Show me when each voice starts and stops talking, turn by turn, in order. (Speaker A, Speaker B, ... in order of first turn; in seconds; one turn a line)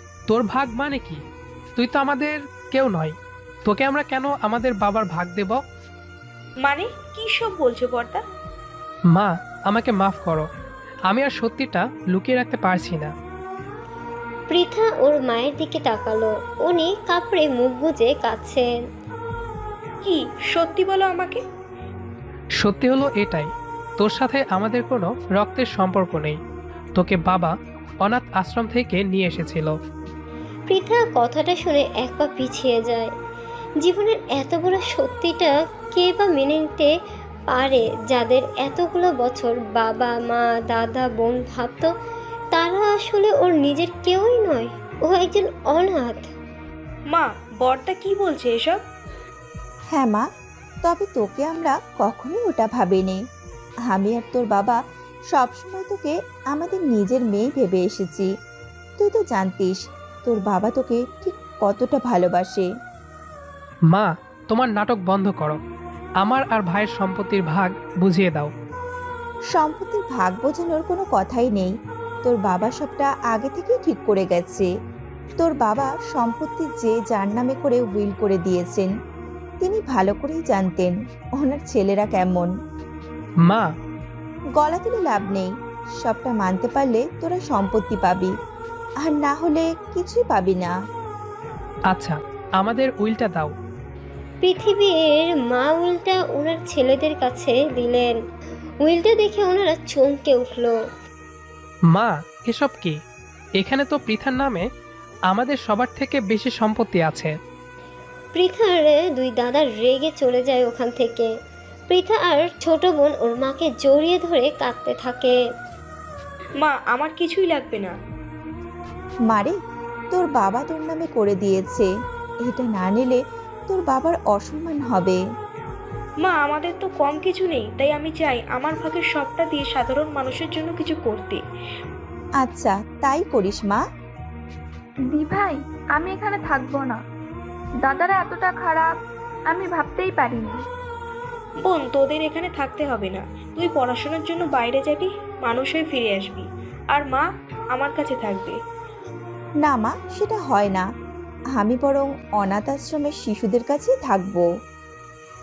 Speaker A: 0.3-1.2
Speaker A: 1.8-3.1
Speaker A: 3.7-5.6
Speaker B: 6.6-8.2
Speaker A: 9.1-10.5
Speaker A: 11.1-13.1
Speaker C: 14.5-18.7
Speaker B: 20.0-21.4
Speaker A: 22.6-26.4
Speaker A: 27.0-29.8
Speaker C: 30.7-33.1
Speaker C: 33.8-36.9
Speaker C: 37.5-41.9
Speaker C: 42.5-46.3
Speaker B: 47.1-48.8
Speaker D: 49.9-50.3
Speaker D: 50.8-53.2
Speaker D: 53.9-54.8
Speaker D: 55.3-58.3
Speaker D: 59.0-62.7
Speaker A: 63.9-65.6
Speaker A: 66.2-68.5
Speaker D: 69.5-74.7
Speaker D: 75.4-78.9
Speaker D: 79.6-82.5
Speaker D: 84.6-88.3
Speaker D: 89.0-90.8
Speaker A: 91.9-93.5
Speaker C: 94.4-98.2
Speaker C: 98.8-100.8
Speaker A: 101.9-103.0
Speaker A: 103.6-104.7
Speaker A: 105.3-107.3
Speaker C: 108.3-111.3
Speaker C: 111.9-115.4
Speaker B: 116.6-117.9
Speaker D: 119.3-119.5
Speaker D: 120.1-121.9
Speaker D: 122.5-125.2
Speaker B: 126.2-131.4
Speaker D: 132.4-133.8
Speaker E: 135.1-137.0
Speaker E: 137.8-138.9
Speaker E: 139.5-140.7
Speaker B: 141.6-148.6
Speaker D: 149.6-150.9
Speaker D: 151.5-154.4